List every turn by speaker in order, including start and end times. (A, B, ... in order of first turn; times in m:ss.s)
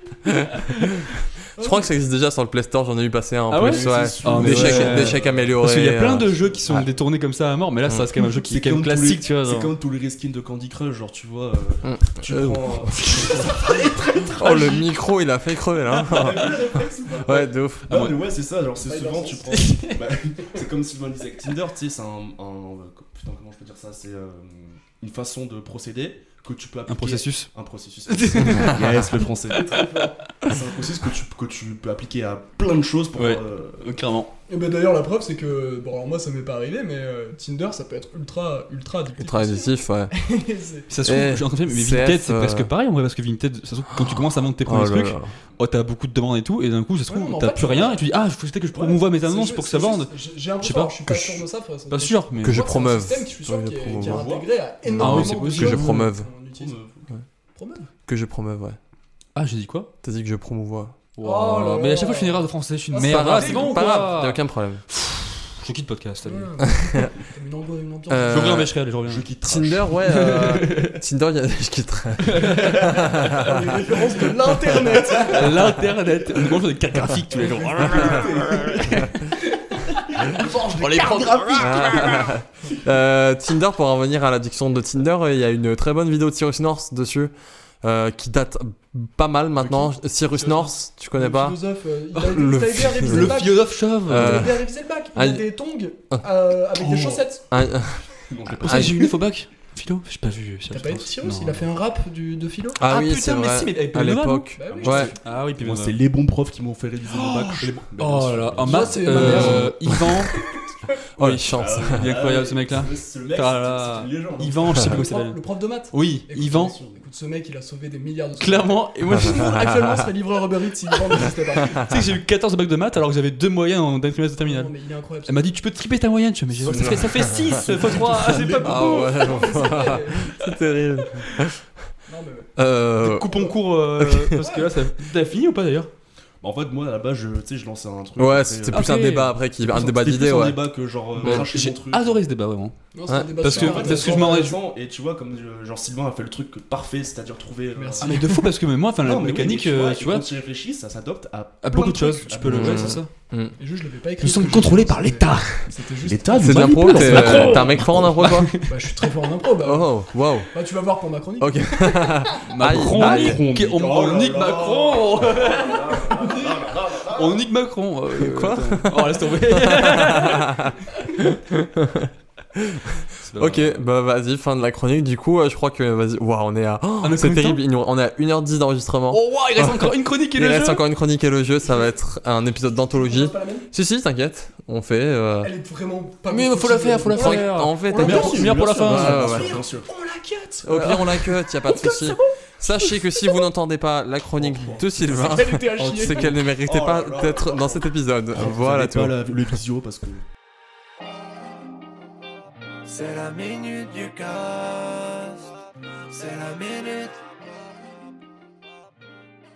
0:00.2-0:00.8 A
0:01.6-0:01.9 B
0:01.6-0:06.8 A
0:03.5-0:09.7 C
0:03.6-0:05.6 D
0:06.2-0:06.8 D
0:08.3-0:14.9 D
0:11.8-0:13.4 A
0:14.4-0:18.0 A
0:15.9-0:33.9 D
0:17.9-0:18.2 C
0:18.8-0:19.8 B
0:19.5-0:19.9 C
0:26.9-0:27.5 C
0:28.1-0:29.8 C
0:29.5-0:30.2 B
0:33.1-0:34.3 C
0:34.5-0:40.9 B
0:39.2-0:40.1 A
0:40.9-0:52.6 C
0:41.0-0:42.7 A
0:44.0-0:45.3 A
0:47.1-0:48.0 B
0:48.7-0:49.0 D
0:49.1-0:56.8 B
0:52.4-0:54.3 A
0:53.8-0:54.5 D
0:54.9-0:56.3 A
0:55.0-0:56.1 C
0:56.6-0:57.1 D
0:57.6-0:57.9 B
0:58.1-0:58.8 A
0:59.3-0:59.9 C
1:00.0-1:01.0 A
1:01.2-1:06.5 C
1:01.2-1:04.1 B
1:03.0-1:04.8 A
1:06.2-1:08.6 B
1:06.8-1:07.1 A
1:08.1-1:08.7 A
1:08.3-1:09.3 C
1:09.0-1:11.0 D
1:09.4-1:13.6 A
1:10.1-1:10.8 C
1:12.3-1:13.0 C
1:13.2-1:15.6 B
1:15.1-1:22.3 C
1:17.3-1:19.2 D
1:20.1-1:22.3 D
1:21.6-1:27.3 A
1:27.8-1:31.6 A
1:30.4-1:37.4 B
1:32.1-1:33.4 A
1:32.8-1:34.5 C
1:34.1-1:34.6 A
1:35.1-1:35.4 A
1:36.8-1:37.2 C
1:37.5-1:38.0 A
1:38.2-1:39.1 D
1:38.6-1:41.6 C
1:38.6-1:39.1 A
1:40.7-1:42.8 B
1:42.8-1:45.1 A
1:42.8-1:46.0 C
1:44.6-1:45.2 B
1:44.7-1:49.6 D
1:47.1-1:50.4 C
1:48.6-1:49.7 B
1:49.2-1:50.2 A
1:51.2-1:52.1 A
1:51.2-1:55.4 C
1:51.5-1:55.0 D
1:54.8-2:01.8 B
1:55.9-1:56.7 C
1:56.7-1:57.0 D
1:58.4-1:59.7 C
1:59.6-1:59.9 A
2:01.7-2:04.7 C
2:04.4-2:05.4 B
2:05.2-2:09.4 C
2:06.6-2:07.8 D
2:06.7-2:07.8 A
2:08.0-2:10.6 B
2:08.6-2:11.6 A
2:12.1-2:12.5 B
2:12.6-2:13.4 A
2:13.0-2:15.9 C
2:14.0-2:14.4 A
2:14.4-2:14.8 B
2:16.4-2:18.9 D
2:18.2-2:20.6 A
2:18.7-2:19.3 C
2:19.6-2:22.2 D
2:21.2-2:22.8 C
2:21.2-2:21.5 A
2:22.9-2:24.5 B
2:23.1-2:23.4 A
2:23.4-2:24.6 C
2:23.5-2:28.5 D
2:27.7-2:28.2 B
2:28.0-2:30.3 C
2:29.0-2:33.0 D
2:31.6-2:33.1 C
2:32.4-2:33.5 A
2:33.6-2:37.2 B
2:34.2-2:35.7 C
2:36.0-2:38.5 D
2:36.4-2:38.5 A
2:36.7-2:38.7 C
2:38.6-2:42.4 B
2:39.6-2:40.5 A
2:41.4-2:43.4 A
2:42.4-2:51.2 C
2:42.6-2:47.4 D
2:48.1-3:05.5 A
2:53.2-2:53.8 C
2:57.0-2:57.6 C
2:59.1-3:00.8 C
3:02.9-3:03.7 B
3:05.4-3:13.4 B
3:06.3-3:09.4 C
3:07.1-3:09.5 A
3:08.0-3:09.9 D
3:10.6-3:19.6 A
3:10.8-3:11.1 C
3:14.4-3:20.2 D
3:15.1-3:16.3 B
3:22.8-3:25.4 E
3:26.1-3:27.2 E